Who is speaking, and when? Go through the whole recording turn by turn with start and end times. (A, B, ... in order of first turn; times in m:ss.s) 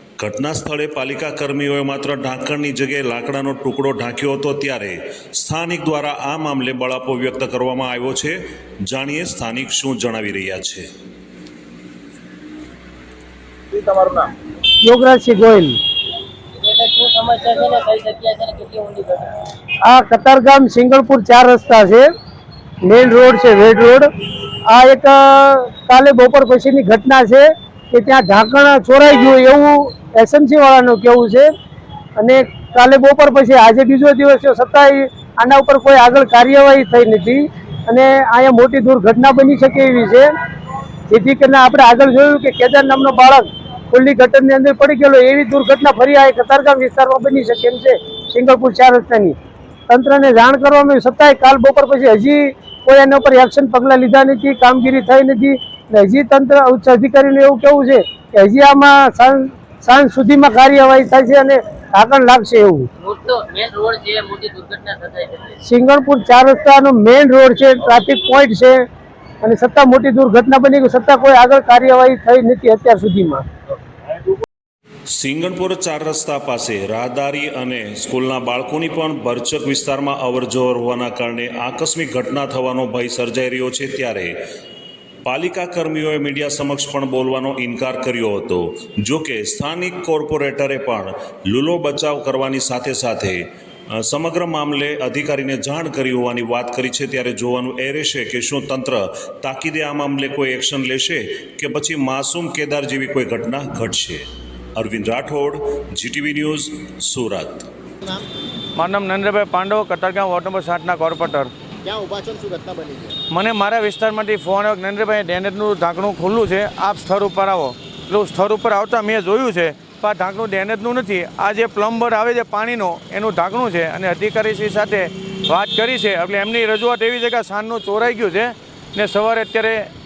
0:00.2-0:10.9 A
0:13.7-0:14.3 B
0:14.8-0:15.8 C
0:16.6-0:19.3 D
0:19.9-0:22.1 C
0:22.8-0:24.1 C
0:24.7-0:31.5 C
0:32.2-0:40.3 C
0:41.1-0:49.3 C
0:49.9-1:02.9 C
1:03.0-1:05.5 D
1:05.6-1:08.8 C
1:09.4-1:13.4 C
1:15.1-1:24.4 A
1:25.2-1:44.2 A
1:44.7-1:47.7 A
1:48.7-1:51.5 E
1:51.8-1:53.2 B
1:53.3-2:09.9 E